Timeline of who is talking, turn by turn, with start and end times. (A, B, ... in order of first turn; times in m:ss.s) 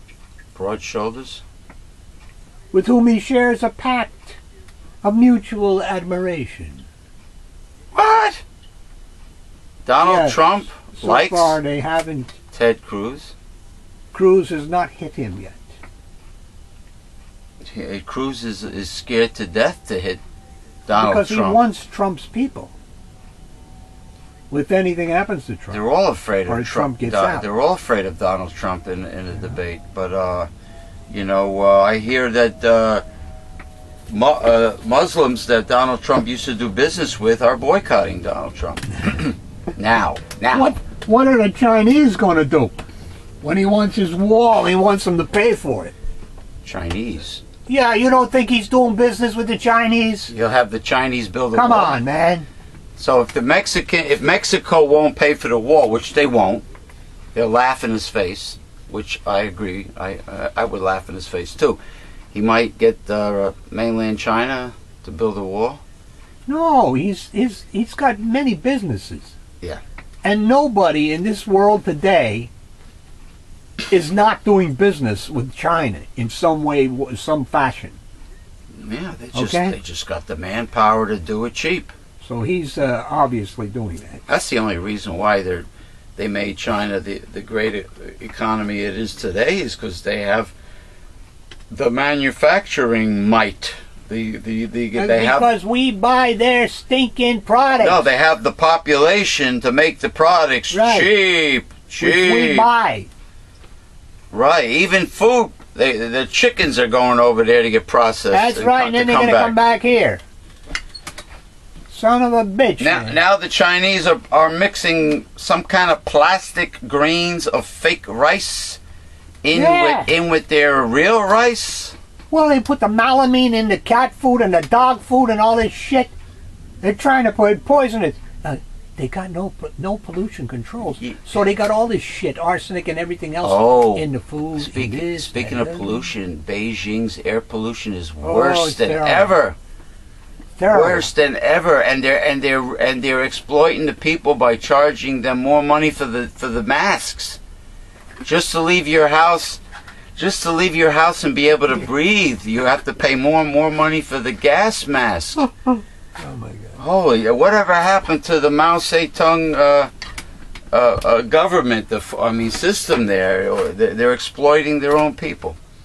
0:00.6-0:01.4 A
0:02.7-0:04.4 B
0:05.0-0:06.8 B
0:07.9-0:08.4 A
0:09.9-0:11.6 A
0:10.0-0:12.3 B
0:12.5-0:13.3 A
0:14.1-0:15.7 B
0:17.6-0:20.2 A
0:20.9-0:21.6 A
0:21.0-0:22.7 B
0:24.5-0:25.8 B
0:25.7-0:30.5 A
0:26.5-0:27.5 B
0:31.1-0:33.0 A
0:34.1-0:40.7 A
0:40.5-0:42.8 B
0:43.4-0:45.9 B
0:46.6-0:47.4 A
0:47.7-0:50.3 B
0:50.3-0:52.0 A
0:51.5-0:52.5 B
0:53.0-0:56.7 A
0:57.4-1:01.8 A
1:02.3-1:05.8 A
1:06.5-1:09.4 B
1:10.2-1:12.5 B
1:13.9-1:18.0 B
1:18.7-1:21.9 A
1:19.3-1:19.8 B
1:22.2-1:24.2 B
1:24.3-1:30.5 A
1:31.7-1:35.5 A
1:35.0-1:38.0 B
1:37.8-1:42.7 A
1:40.7-1:41.1 B
1:42.0-1:43.1 B
1:44.3-1:49.6 A
1:48.3-1:50.2 B
1:51.9-1:53.2 B
1:52.8-1:58.8 A
1:59.4-2:02.0 A
1:59.5-2:00.1 B
2:02.3-2:06.1 B
2:06.8-2:16.0 B
2:13.4-2:19.6 A
2:18.2-2:19.3 B
2:20.6-2:21.1 B
2:20.7-2:27.4 A
2:28.2-2:29.6 A
2:30.2-2:35.5 A
2:36.2-2:36.8 B
2:36.8-2:39.9 A
2:40.7-2:45.6 A